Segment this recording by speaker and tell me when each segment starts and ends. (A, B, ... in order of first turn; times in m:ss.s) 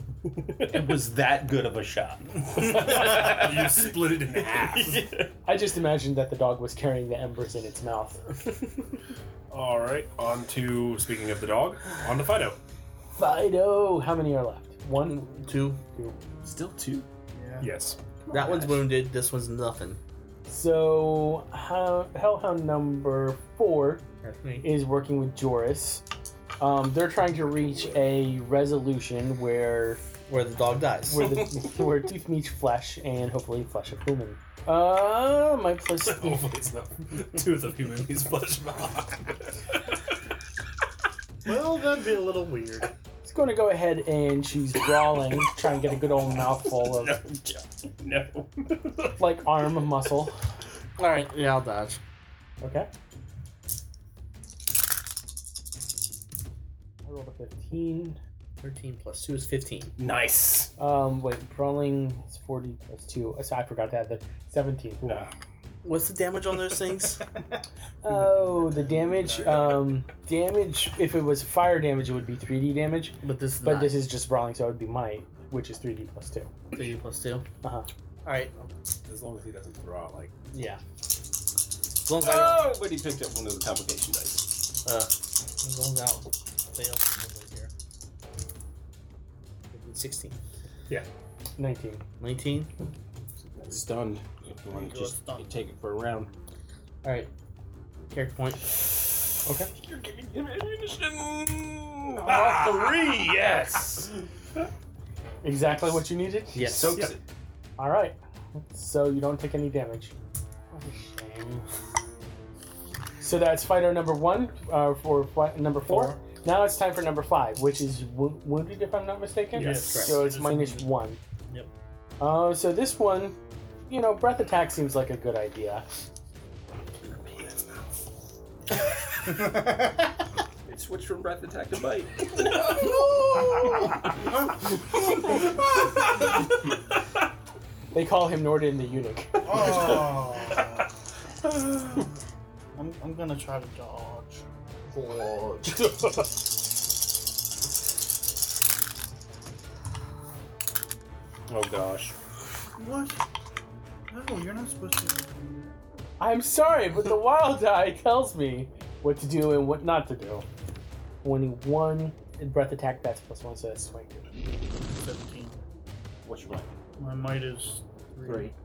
0:00.5-0:03.9 A
0:02.7-0:05.0 B
0:04.8-0:05.3 A
0:05.4-0:08.2 C
0:09.5-0:12.6 B
0:13.2-0:15.3 C
0:15.0-0:15.8 D
0:16.4-0:17.1 A
0:17.3-0:17.8 E
0:17.6-0:18.0 B
0:18.2-0:18.8 A
0:18.3-0:20.0 D
0:20.5-0:24.0 C
0:24.2-0:24.7 D
0:24.6-0:26.0 C
0:26.6-0:30.0 C
0:30.3-0:31.4 D
0:31.1-0:36.5 C
0:36.0-0:39.5 B
0:41.4-0:42.9 E
0:43.2-0:47.2 C
0:46.9-0:48.8 A
0:49.2-0:50.4 C
0:51.0-0:52.0 D
0:52.6-0:52.9 C
0:57.0-0:58.2 C
0:58.6-0:59.9 D
1:00.0-1:00.7 A
1:00.8-1:05.0 C
1:05.0-1:05.3 A
1:05.8-1:07.2 D
1:08.0-1:16.5 C
1:08.7-1:09.6 E
1:13.2-1:14.0 D
1:16.7-1:17.5 D
1:17.6-1:17.9 C
1:18.2-1:18.6 D
1:19.0-1:20.3 B
1:20.5-1:20.8 D
1:22.0-1:22.7 D
1:22.2-1:24.5 A
1:24.8-1:27.7 D
1:29.7-1:30.4 D
1:31.6-1:32.0 C
1:32.2-1:32.7 D
1:33.5-1:36.3 A
1:34.7-1:35.6 E
1:37.0-1:37.3 D
1:38.1-1:38.6 D
1:39.4-1:39.7 C
1:39.8-1:43.2 A
1:42.3-1:44.1 B
1:45.4-1:46.7 C
1:46.5-1:47.1 D
1:46.6-1:47.2 A
1:47.8-1:50.1 C
1:50.7-1:51.6 C
1:53.2-2:01.2 C
1:55.9-1:56.2 D
1:59.6-1:59.9 B
1:59.6-2:00.9 E
1:59.8-2:00.2 D
2:02.2-2:03.4 C
2:03.9-2:05.9 C
2:10.7-2:13.0 A
2:13.0-2:13.6 E
2:17.9-2:20.0 C
2:19.4-2:20.8 E
2:22.8-2:24.4 E
2:24.9-2:26.1 D
2:31.5-2:32.2 A
2:32.8-2:33.2 E
2:34.1-2:35.7 E
2:36.2-2:40.5 C
2:41.2-2:44.3 C
2:44.9-2:45.6 E
2:46.2-2:46.7 A
2:47.0-2:48.5 E
2:48.2-2:48.5 D